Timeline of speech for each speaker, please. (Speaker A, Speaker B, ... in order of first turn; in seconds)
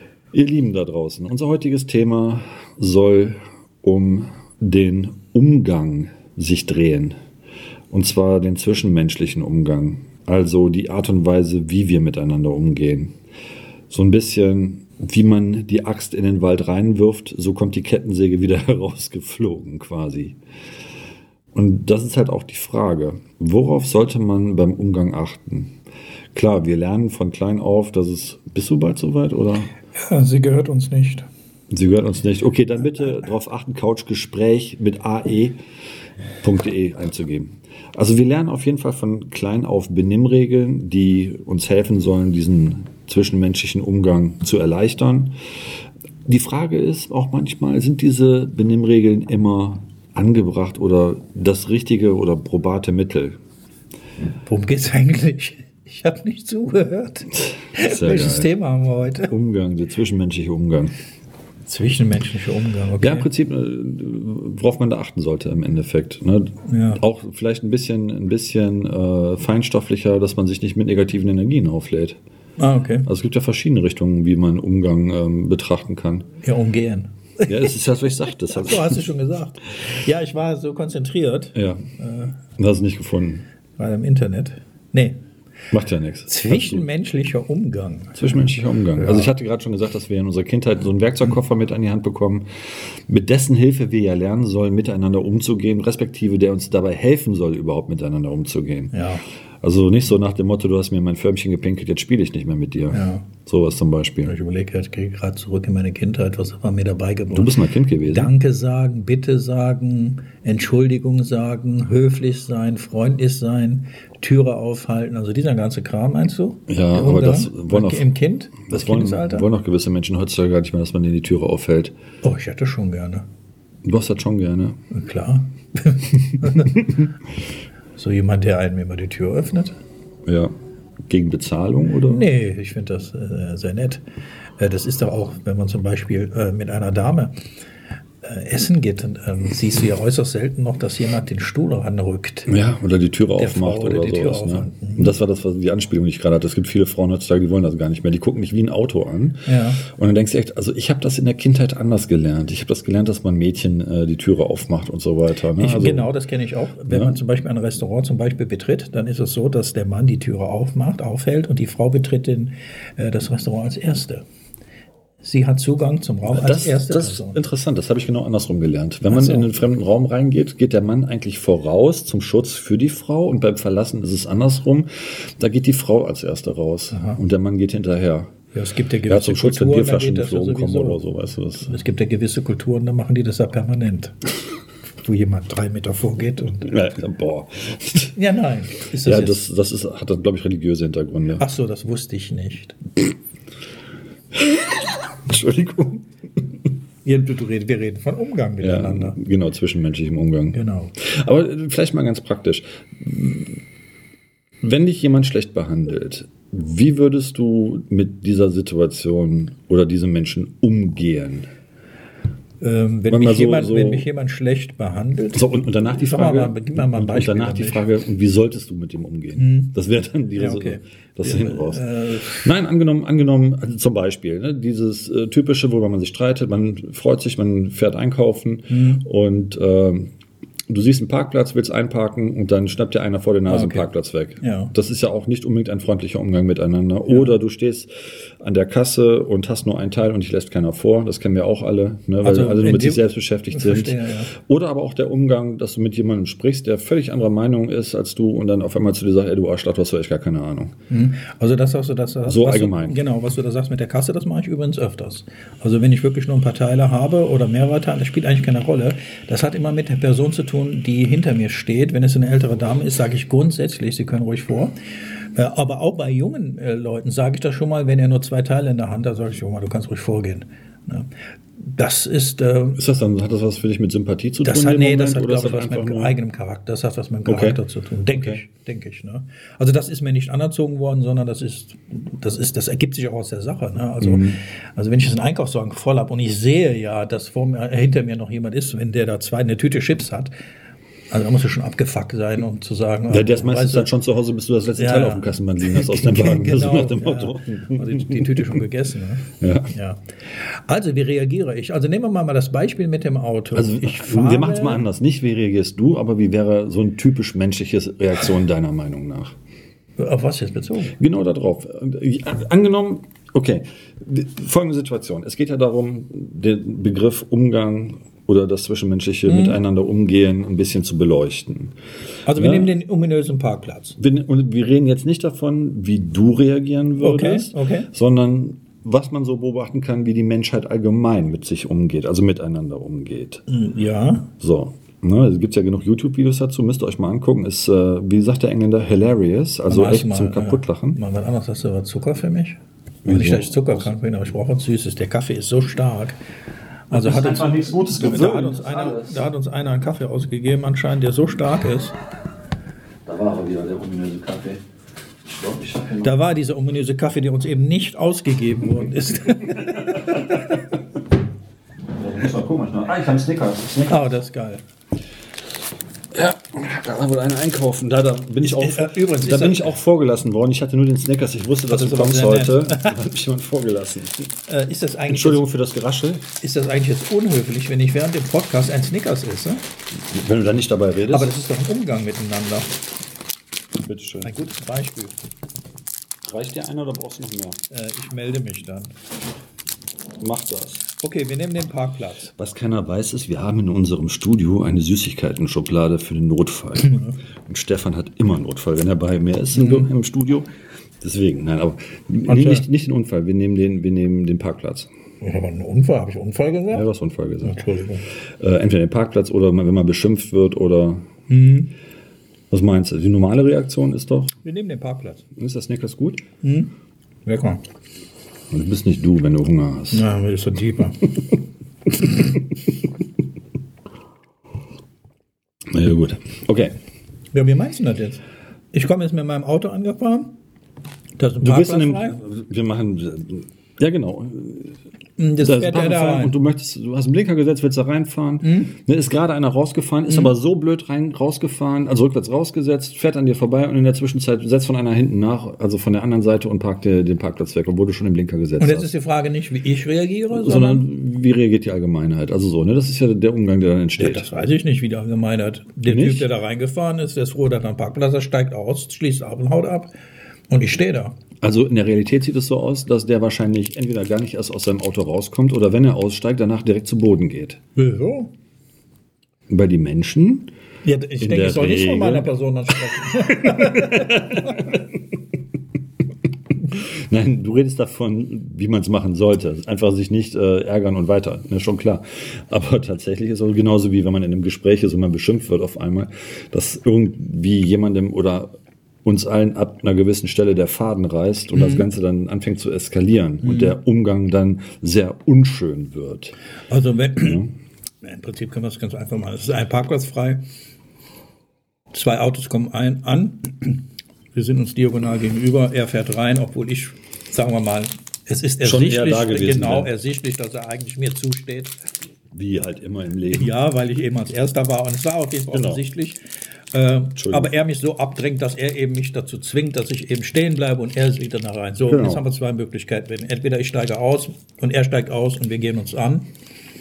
Speaker A: 0.3-7.2, 7.9-13.1, 13.9-20.4, 21.5-25.7, 26.3-29.7, 31.7-35.6, 36.4-45.3, 46.2-53.4, 57.3-58.5, 59.3-60.9, 63.0-72.2, 73.0-76.3, 77.5-79.0, 81.5-81.9, 82.4-83.4, 85.7-86.8, 88.1-99.1, 99.6-104.3, 107.3-108.3, 116.7-118.0, 118.7-121.9, 123.8-124.8, 126.3-127.1, 130.3-130.5, 131.1-132.2, 142.5-156.1, 156.9-157.2, 166.3-178.3, 179.1-181.7, 186.6-188.1, 189.0-191.4, 194.3-196.1, 198.6-203.6, 204.6-211.5, 213.1-214.0, 215.3-230.1, 230.7-250.7, 252.2-253.0, 272.8-276.1, 277.2-277.6, 278.1-278.4, 284.0-284.4, 293.1-298.6, 299.4-299.7, 303.5-309.3, 311.0-321.7, 322.3-322.7, 324.0-333.4, 334.4-341.0, 343.0-343.9, 346.9-349.2, 353.1-354.6, 355.2-356.1, 359.9-360.2, 362.0-364.0, 366.1-374.3, 375.1-376.3, 380.1-381.4, 383.8-384.3, 386.2-387.6, 390.2-390.9, 392.4-400.5, 401.0-404.9, 406.7-407.6, 408.4-411.1, 412.5-414.3, 415.4-416.2, 418.5-420.1, 425.7-426.8, 431.4-434.8, 435.4-448.9, 450.3-454.3, 455.9-456.3, 461.4-467.6, 469.5-470.5, 471.2-472.3, 473.1-475.0, 476.6-496.4, 497.2-497.5, 508.6-509.9, 512.3-513.5, 515.5-515.8, 517.1-517.5, 521.9-522.2
Speaker B: 29.9-31.3, 54.4-59.3, 61.7-63.3, 66.7-67.0, 72.6-73.1, 76.4-77.7, 78.5-82.3, 83.8-85.2, 86.3-88.4, 89.0-89.3, 98.9-99.2, 102.9-103.2, 104.2-119.5, 122.2-123.2, 124.9-126.9, 127.9-129.8, 132.0-134.0, 134.6-137.4, 138.2-142.5, 143.4-145.1, 149.4-149.8, 155.6-164.2, 165.2-167.4, 169.1-169.5, 176.9-177.2, 178.5-181.0, 181.6-184.2, 185.0-186.7, 188.1-189.4, 191.4-192.8, 197.0-199.2, 200.5-200.9, 212.6-217.8, 219.3-219.7, 220.3-222.5, 228.7-229.0, 233.5-233.9, 234.4-234.7, 242.2-244.3, 250.9-272.8, 274.4-290.3, 291.1-293.9, 294.8-304.8, 310.0-310.9, 319.2-319.6, 322.2-324.0, 327.0-327.9, 333.5-334.3, 339.7-346.2, 346.9-351.9, 356.0-360.6, 363.9-364.6, 368.4-369.8, 371.7-373.0, 374.5-375.4, 376.4-379.6, 381.1-382.7, 384.2-385.1, 387.7-388.9, 391.0-392.3, 396.8-397.1, 399.5-399.9, 402.3-402.6, 405.2-406.9, 407.4-408.0, 411.3-411.7, 414.4-415.2, 416.4-416.7, 417.2-417.6, 419.9-421.2, 427.3-430.3, 431.2-432.2, 435.2-436.4, 438.4-438.7, 448.6-450.9, 454.0-459.9, 460.5-461.2, 467.8-468.3, 470.8-474.8, 491.5-491.9, 493.4-493.8, 496.7-497.4, 498.0-500.4, 501.9-511.8, 513.3-516.2, 516.7-526.3